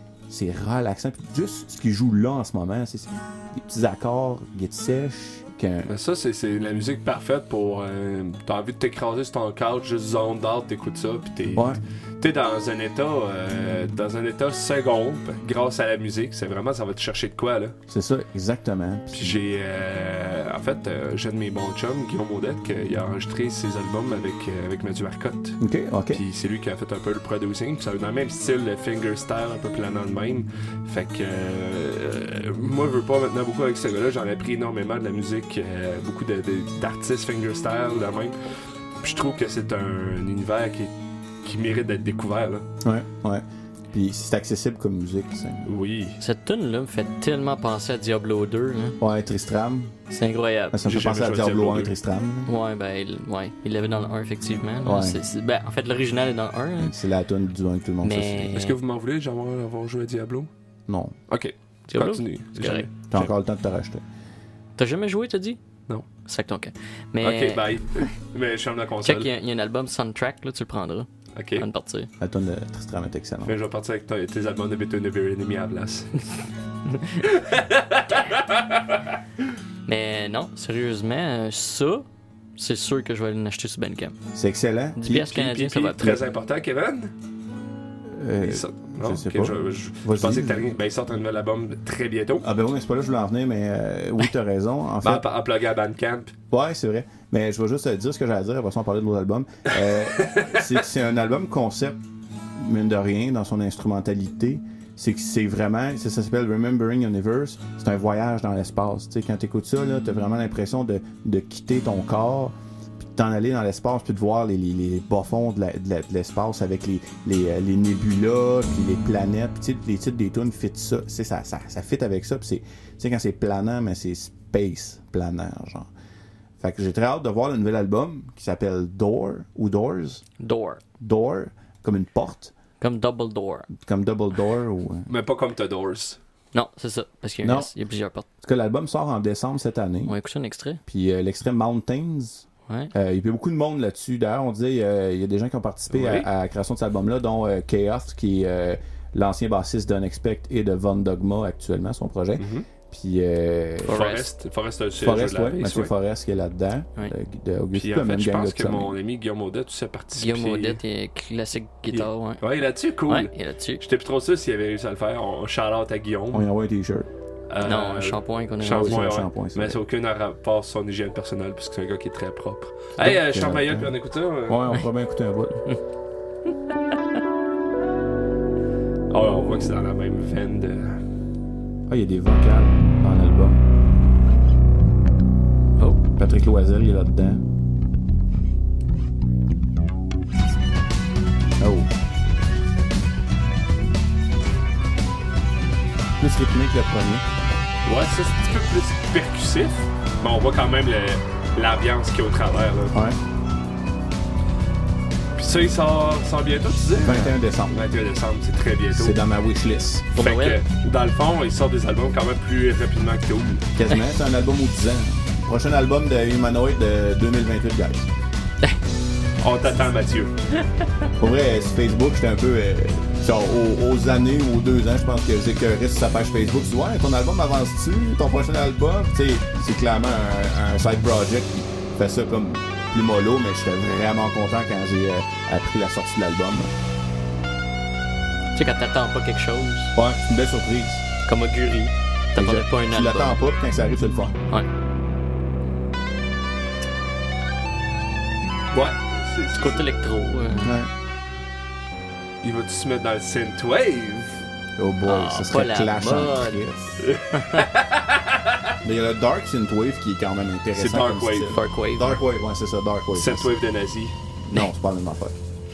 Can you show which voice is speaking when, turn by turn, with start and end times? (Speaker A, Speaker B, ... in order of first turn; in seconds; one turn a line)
Speaker A: 0.3-5.9
Speaker B: 5.9-17.8
Speaker A: 11.5-11.8
Speaker A: 17.9-19.4
Speaker B: 19.1-25.6
Speaker A: 25.6-26.2
Speaker B: 26.1-38.4
Speaker B: 39.0-40.9
Speaker B: 41.4-42.7
Speaker A: 42.8-45.7
Speaker B: 45.7-46.2
Speaker C: 46.2-49.0
Speaker A: 49.0-50.0
Speaker C: 50.1-50.8
Speaker A: 50.7-52.5
Speaker B: 50.9-51.9
Speaker C: 52.5-57.0
Speaker A: 54.8-55.2
Speaker A: 56.8-58.5
Speaker C: 58.0-58.8
Speaker B: 58.5-60.5
Speaker A: 60.9-61.1
Speaker B: 61.3-63.3
Speaker C: 61.9-63.0
Speaker A: 63.1-64.0
Speaker C: 64.8-65.6
Speaker C: 66.2-68.1
Speaker B: 67.2-69.3
Speaker C: 69.0-72.1
Speaker B: 71.4-71.7
Speaker A: 72.2-73.5
Speaker B: 73.5-76.1
Speaker B: 77.2-79.0
Speaker C: 79.9-84.2
Speaker A: 84.3-85.4
Speaker C: 85.0-86.2
Speaker B: 85.3-87.1
Speaker A: 88.1-90.7
Speaker B: 88.4-92.5
Speaker A: 92.4-95.3
Speaker B: 95.0-96.3
Speaker A: 96.5-102.0
Speaker B: 100.2-100.6
Speaker A: 102.6-125.9
Speaker A: 126.6-130.2
Speaker C: 130.4-130.8
Speaker A: 131.0-132.5
Speaker C: 132.8-133.7
Speaker A: 133.8-135.1
Speaker B: 135.1-136.2
Speaker C: 136.5-138.3
Speaker A: 137.4-137.7
Speaker A: 138.4-140.1
Speaker C: 140.1-140.8
Speaker A: 140.9-154.0
Speaker C: 142.7-142.9
Speaker B: 145.9-146.3
Speaker B: 152.4-152.7
Speaker C: 153.9-154.3
Speaker B: 153.9-155.9
Speaker A: 155.0-159.0
Speaker B: 157.7-160.8
Speaker C: 160.2-162.5
Speaker B: 161.9-166.5
Speaker C: 163.1-163.8
Speaker A: 166.3-167.1
Speaker B: 167.5-174.6
Speaker C: 167.6-169.1
Speaker A: 168.7-169.8
Speaker A: 173.0-173.9
Speaker A: 174.5-175.6
Speaker B: 179.1-181.0
Speaker A: 181.9-183.6
Speaker C: 185.8-186.0
Speaker A: 186.2-187.4
Speaker A: 191.6-191.9
Speaker A: 196.2-197.2
Speaker B: 197.8-203.0
Speaker A: 202.9-203.2
Speaker B: 205.4-209.2
Speaker A: 207.0-207.8
Speaker A: 208.9-210.1
Speaker C: 210.2-210.6
Speaker B: 210.2-213.7
Speaker A: 213.8-218.1
Speaker B: 219.4-220.3
Speaker A: 221.2-236.7
Speaker C: 238.6-239.9
Speaker A: 239.9-241.1
Speaker C: 241.3-243.4
Speaker A: 242.4-244.4
Speaker B: 248.7-249.9
Speaker C: 249.6-250.8
Speaker A: 250.6-250.9
Speaker B: 252.4-254.4
Speaker A: 254.8-257.0
Speaker C: 255.1-256.6
Speaker B: 257.0-258.7
Speaker C: 257.4-257.7
Speaker A: 258.8-263.5
Speaker B: 260.8-261.6
Speaker C: 261.5-262.2
Speaker B: 263.1-264.1
Speaker A: 264.5-265.4